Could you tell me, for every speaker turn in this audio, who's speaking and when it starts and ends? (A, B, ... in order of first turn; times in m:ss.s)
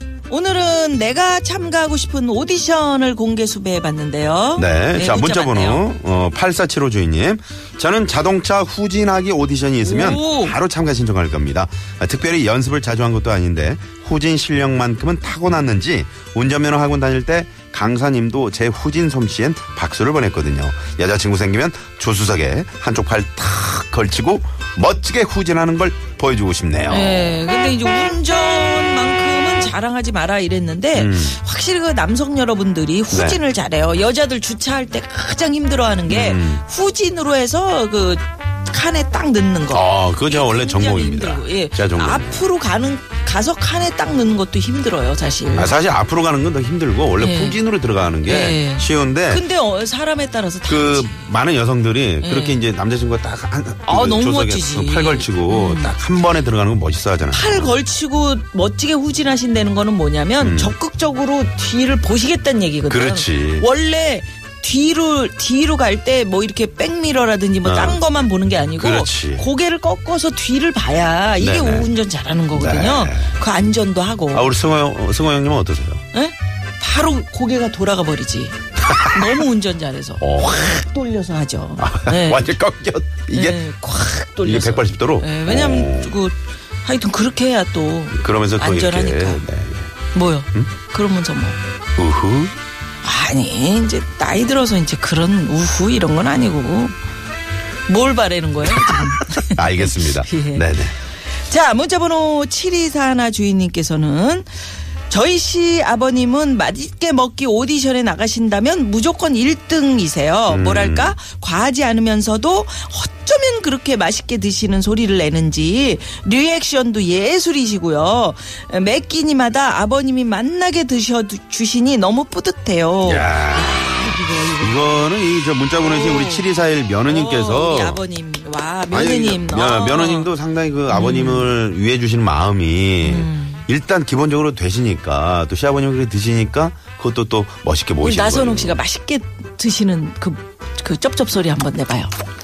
0:00.3-0:05.8 A
0:04.6-0:27.4 B
0:09.8-0:10.6 A
0:26.9-0:45.7 A
0:30.9-0:31.4 B
0:33.1-0:33.4 B
0:36.1-0:36.6 B
0:39.7-0:42.4 B
0:45.5-0:49.4 B
0:47.2-0:47.6 A
0:48.2-0:51.3 A
0:50.6-0:57.8 B
0:52.2-0:52.6 A
0:53.9-0:55.9 A
0:57.3-1:14.5 A
1:00.4-1:00.7 B
1:02.9-1:03.7 B
1:07.6-1:08.0 B
1:08.8-1:09.5 B
1:11.4-1:11.9 B
1:12.5-1:13.4 B
1:14.3-1:16.0 B
1:16.1-1:22.5 A
1:18.8-1:19.3 B
1:20.2-1:20.8 B
1:21.8-1:23.6 B
1:23.3-1:29.4 A
1:24.4-1:26.1 B
1:28.1-1:29.9 B
1:30.1-1:31.6 A
1:32.0-1:32.6 B
1:33.0-1:36.9 A
1:37.9-1:40.7 A
1:39.4-1:41.0 B
1:41.3-1:44.5 A
1:45.1-2:04.8 A
1:50.5-1:51.2 B
2:03.0-2:08.0 B
2:05.8-2:06.5 A
2:07.0-2:10.3 A
2:08.9-2:18.8 B
2:10.9-2:11.5 A
2:13.0-2:13.6 A
2:18.0-2:22.1 A